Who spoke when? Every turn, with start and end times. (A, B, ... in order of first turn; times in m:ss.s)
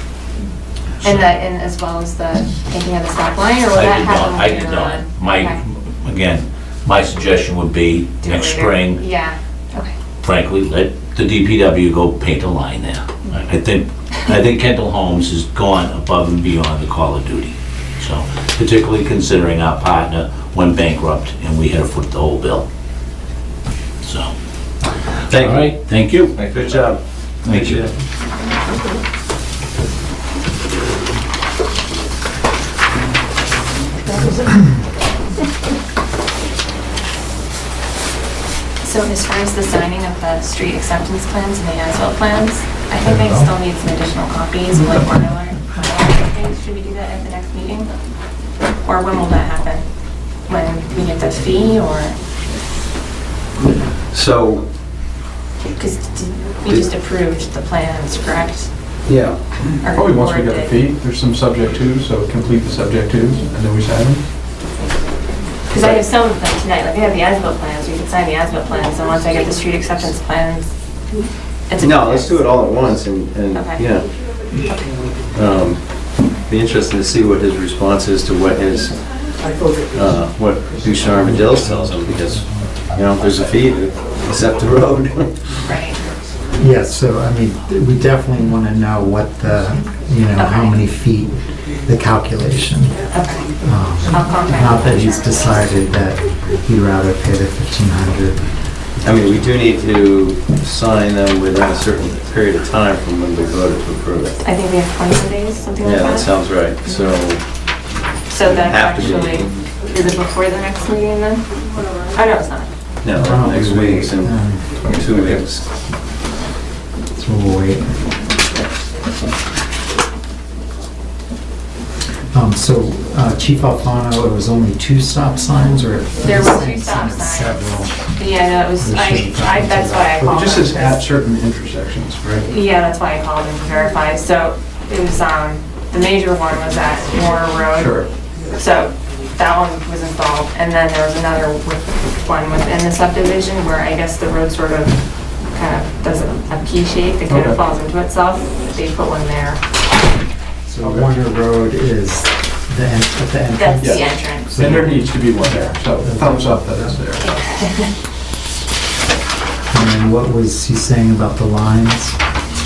0:01.0-0:01.3 A
0:01.0-0:05.6 B
0:03.7-0:09.0 A
0:08.2-0:09.9 B
0:10.2-0:22.6 A
0:24.0-0:24.3 A
0:25.3-0:25.7 C
0:25.3-0:26.4 A
0:26.3-0:27.9 C
0:27.4-0:27.9 A
0:38.8-0:47.9 B
0:43.0-0:43.5 D
0:48.8-0:49.8 B
0:50.5-0:52.2 B
0:54.1-0:54.6 C
0:55.8-0:58.7 B
0:59.0-0:59.4 C
0:59.8-1:00.8 B
0:59.9-1:04.2 E
1:05.7-1:10.7 B
1:11.7-1:12.5 B
1:11.8-1:14.0 C
1:13.5-1:13.8 B
1:15.3-1:15.8 C
1:16.5-1:19.0 C
1:19.9-1:25.6 C
1:21.2-1:22.8 D
1:25.6-1:26.0 B
1:26.5-1:33.0 D
1:30.4-1:30.8 B
1:33.1-1:33.5 B
1:33.6-1:38.5 D
1:34.0-1:35.8 B
1:39.0-1:44.4 C
1:44.4-1:46.3 B
1:45.8-1:47.4 C
1:48.3-1:51.4 B
1:48.4-1:49.5 C
1:52.1-1:52.7 B
1:53.0-1:55.6 C
1:53.1-1:55.4 D
1:57.1-1:58.0 D
2:02.3-2:08.1 D
2:06.2-2:11.0 B
2:08.8-2:10.7 D
2:10.3-2:12.5 E
2:12.5-2:29.6 B
2:17.7-2:18.1 E
2:27.3-2:27.6 E
2:30.7-2:37.0 D
2:30.8-2:31.1 E
2:33.5-2:34.8 B
2:33.8-2:37.3 E
2:37.2-2:37.9 B
2:39.7-2:42.2 D